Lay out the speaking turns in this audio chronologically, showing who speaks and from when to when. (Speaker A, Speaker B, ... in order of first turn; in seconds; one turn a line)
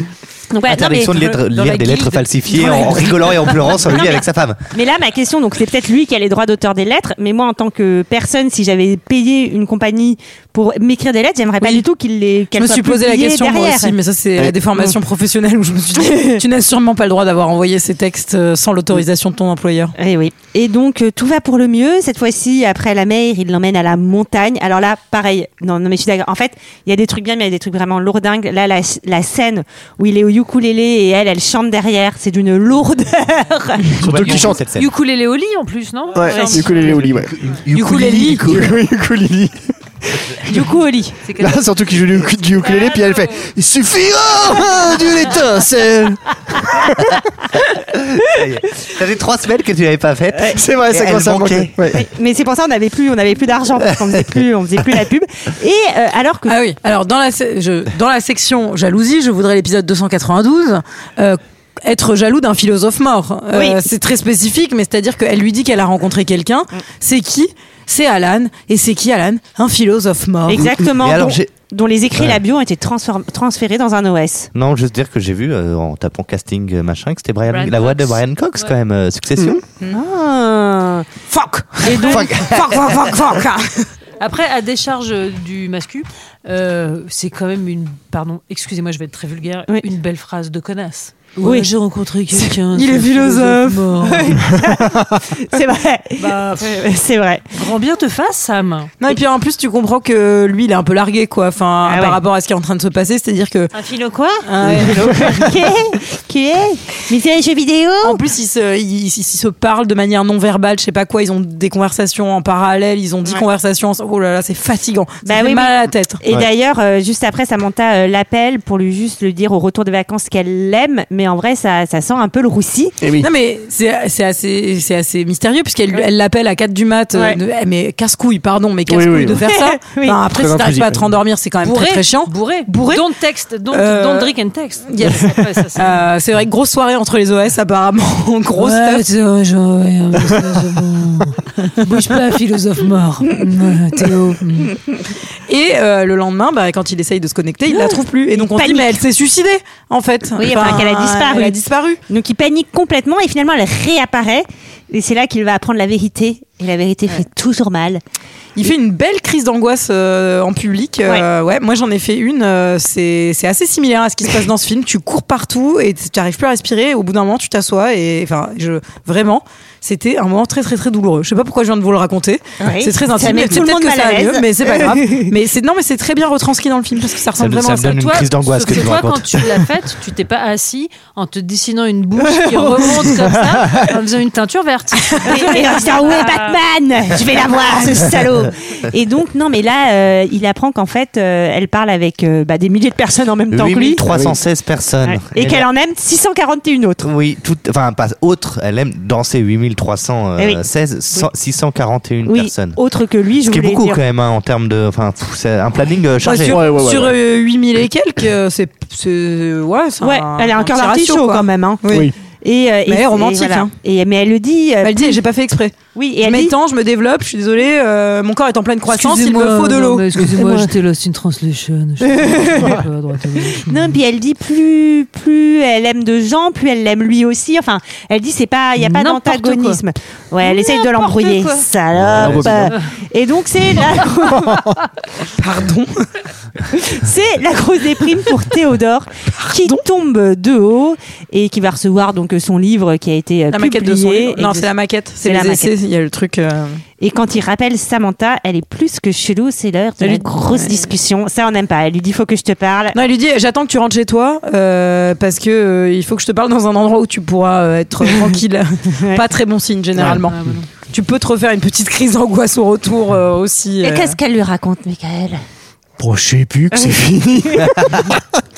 Speaker A: 0.5-1.1
Speaker B: 0.6-4.6
Speaker C: 1.5-3.2
Speaker A: 3.9-13.9
Speaker C: 11.6-11.8
Speaker C: 12.5-19.9
Speaker A: 16.1-16.4
Speaker A: 20.0-34.0
Speaker D: 34.0-34.6
Speaker B: 34.0-34.9
Speaker E: 34.7-37.0
Speaker D: 36.1-37.3
Speaker A: 36.3-36.7
Speaker B: 36.8-38.8
Speaker C: 37.7-38.5
Speaker D: 38.4-40.4
Speaker A: 40.5-41.2
Speaker E: 41.2-43.4
Speaker D: 41.4-47.2
Speaker B: 47.9-51.7
Speaker D: 50.5-52.0
Speaker A: 51.9-56.5
Speaker C: 56.5-70.6
Speaker A: 63.5-63.8
Speaker A: 70.5-74.5
Speaker B: 70.8-71.5
Speaker B: 74.5-79.6
Speaker E: 77.5-78.7
Speaker A: 79.9-81.1
Speaker C: 81.3-83.8
Speaker A: 81.8-82.3
Speaker B: 82.0-82.9
Speaker E: 84.2-94.5
Speaker A: 91.4-91.7
Speaker A: 92.3-93.4
Speaker C: 92.8-93.7
Speaker A: 94.0-97.5
Speaker E: 96.2-96.9
Speaker E: 97.5-98.9
Speaker C: 99.0-103.7
Speaker A: 101.8-102.2
Speaker E: 103.7-104.4
Speaker C: 104.5-105.4
Speaker A: 104.7-108.2
Speaker C: 108.0-116.2
Speaker A: 115.2-123.0
Speaker D: 123.0-123.3
Speaker C: 123.2-133.0
Speaker D: 128.9-129.4
Speaker A: 129.5-130.2
Speaker D: 130.3-131.1
Speaker E: 131.6-136.0
Speaker C: 133.7-134.3
Speaker C: 134.9-139.0
Speaker E: 138.6-144.8
Speaker C: 145.5-152.0
Speaker A: 147.7-149.0
Speaker A: 150.4-158.0
Speaker C: 158.6-177.9
Speaker A: 172.6-175.3
Speaker B: 177.4-179.4
Speaker E: 177.7-186.6
Speaker A: 182.2-183.0
Speaker A: 185.2-194.0
Speaker B: 193.5-195.7
Speaker A: 195.0-197.1
Speaker B: 197.0-202.8
Speaker A: 202.2-204.0
Speaker B: 203.4-206.6
Speaker C: 206.2-212.1
Speaker D: 206.4-207.1
Speaker A: 210.0-215.2
Speaker D: 211.9-212.1
Speaker C: 212.9-213.7
Speaker C: 214.8-220.1
Speaker A: 215.9-216.5
Speaker E: 218.9-224.0
Speaker A: 220.4-220.7
Speaker A: 222.1-222.8
Speaker A: 223.6-234.7
Speaker E: 228.8-229.8
Speaker E: 230.4-231.6
Speaker B: 232.0-232.7
Speaker D: 232.1-232.7
Speaker D: 234.4-234.8
Speaker C: 235.3-236.1
Speaker A: 236.7-244.7
Speaker C: 239.5-239.8
Speaker C: 243.5-246.8
Speaker A: 245.2-245.7
Speaker A: 247.0-252.9
Speaker C: 250.0-250.9
Speaker C: 252.9-260.4
Speaker E: 260.3-260.7
Speaker C: 260.9-264.1
Speaker A: 263.8-265.4
Speaker D: 266.0-268.2
Speaker A: 266.7-267.8